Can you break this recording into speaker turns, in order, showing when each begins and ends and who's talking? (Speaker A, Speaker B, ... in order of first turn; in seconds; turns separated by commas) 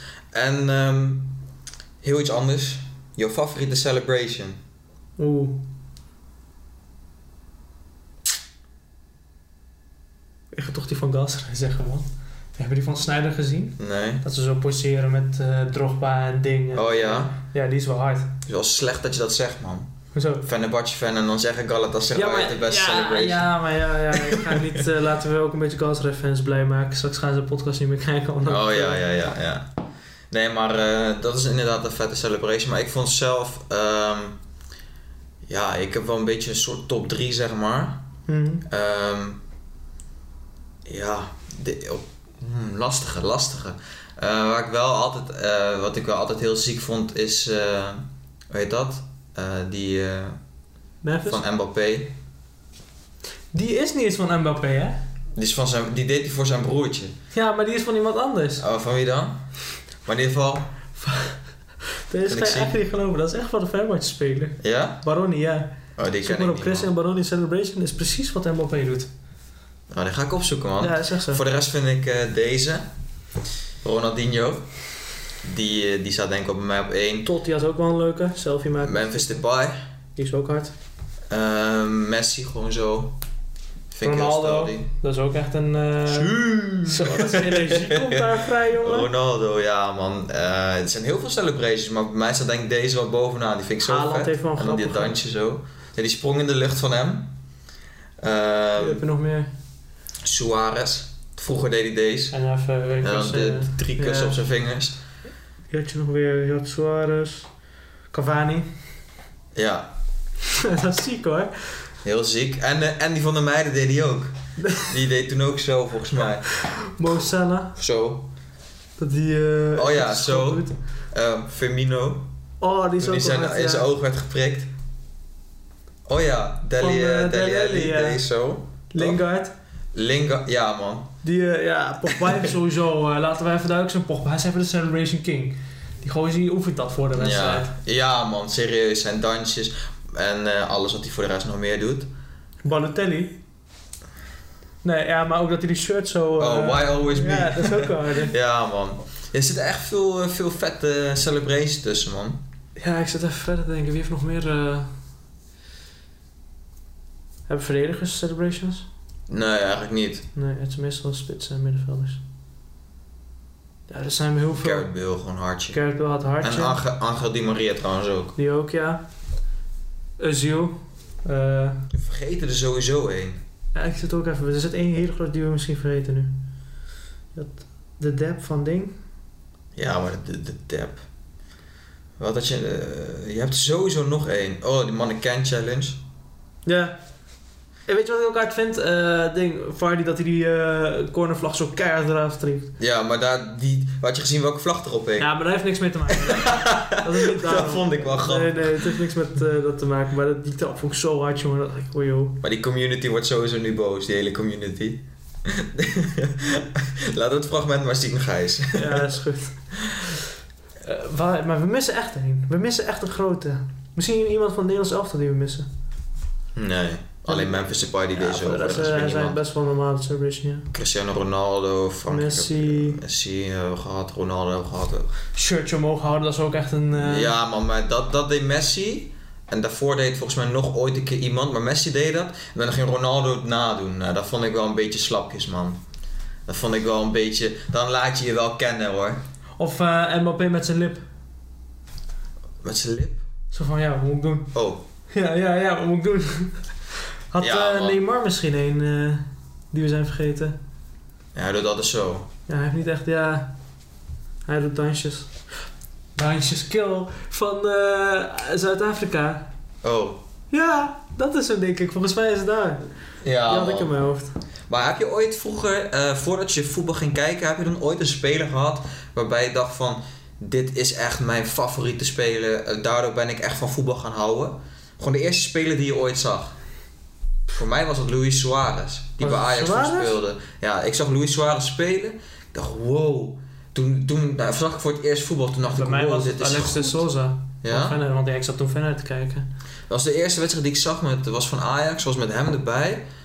Speaker A: 0.3-1.3, Speaker A: 2.0-4.6, Speaker B: 5.2-5.6, Speaker B: 10.5-18.4, Speaker A: 13.8-14.2, Speaker A: 16.7-17.4, Speaker A: 18.5-19.9, Speaker B: 20.1-20.4, Speaker A: 20.4-23.5, Speaker B: 22.1-29.1, Speaker A: 24.2-24.8, Speaker A: 28.5-29.7, Speaker A: 30.3-34.4, Speaker A: 35.5-38.0, Speaker B: 38.3-38.6, Speaker A: 38.7-39.4, Speaker A: 40.9-50.4, Speaker B: 51.0-51.4, Speaker A: 51.3-52.1, Speaker B: 53.5-55.0, Speaker A: 55.4-57.1, Speaker B: 57.3-58.6, Speaker A: 58.6-59.5, Speaker A: 60.0-60.7, Speaker B: 61.0-69.1, Speaker A: 62.3-62.7, Speaker A: 64.6-65.0, Speaker A: 66.0-66.9, Speaker A: 69.9-72.9, Speaker B: 70.8-71.4, Speaker A: 73.8-74.7, Speaker A: 75.4-77.3, Speaker B: 77.2-79.4, Speaker A: 78.8-79.8, Speaker B: 80.2-80.7, Speaker A: 81.3-83.2, Speaker A: 83.9-84.9, Speaker B: 84.0-89.1, Speaker A: 86.1-97.3, Speaker B: 93.8-95.2, Speaker A: 98.2-99.0, Speaker B: 98.8-99.5, Speaker A: 100.2-102.3, Speaker B: 102.3-104.4, Speaker A: 103.0-105.0, Speaker B: 105.7-107.5, Speaker B: 108.1-108.7, Speaker A: 109.5-109.9, Speaker B: 110.4-111.9, Speaker A: 112.0-116.5, Speaker B: 114.6-114.9, Speaker B: 116.6-117.8, Speaker A: 117.8-118.3, Speaker B: 119.0-120.8, Speaker A: 119.8-122.3, Speaker B: 122.6-123.9, Speaker A: 123.0-124.7, Speaker A: 126.1-129.2, Speaker B: 126.8-128.2, Speaker B: 128.9-129.5, Speaker A: 129.9-131.2, Speaker B: 131.2-137.7, Speaker A: 137.2-142.1, Speaker B: 142.6-143.4, Speaker B: 144.8-148.3, Speaker A: 146.4-152.4, Speaker B: 152.8-154.9, Speaker B: 157.5-158.9, Speaker A: 159.3-160.3, Speaker B: 160.3-162.2, Speaker B: 163.9-164.9, Speaker A: 164.5-165.8, Speaker B: 165.7-166.8, Speaker A: 166.4-168.4, Speaker B: 168.4-169.0, Speaker B: 170.2-171.8, Speaker A: 171.9-173.4, Speaker B: 173.7-176.3, Speaker B: 177.3-179.0, Speaker A: 179.8-181.0, Speaker A: 182.2-186.0, Speaker B: 186.7-187.0, Speaker B: 187.9-192.7, Speaker A: 192.8-195.3, Speaker B: 195.2-202.4, Speaker A: 196.2-199.0, Speaker A: 202.4-209.0, Speaker B: 208.7-210.2, Speaker B: 210.8-215.7, Speaker A: 216.6-219.4, Speaker B: 217.3-220.7, Speaker A: 220.7-225.1, Speaker B: 222.1-223.0, Speaker B: 225.3-227.3, Speaker A: 226.9-235.8, Speaker A: 236.5-239.2, Speaker B: 239.6-241.1, Speaker A: 242.6-243.2, Speaker B: 243.5-244.5, Speaker A: 244.5-244.8, Speaker B: 245.1-250.6, Speaker A: 247.4-248.0, Speaker A: 251.3-252.3, Speaker B: 252.5-253.5, Speaker B: 254.4-255.3, Speaker B: 256.1-259.5, Speaker A: 259.8-260.2, Speaker B: 260.5-262.8, Speaker A: 263.2-263.9, Speaker B: 263.5-264.4, Speaker A: 264.7-276.6, Speaker A: 277.5-287.0, Speaker B: 279.2-280.2, Speaker B: 285.6-289.5, Speaker A: 287.6-288.0, Speaker A: 289.9-293.1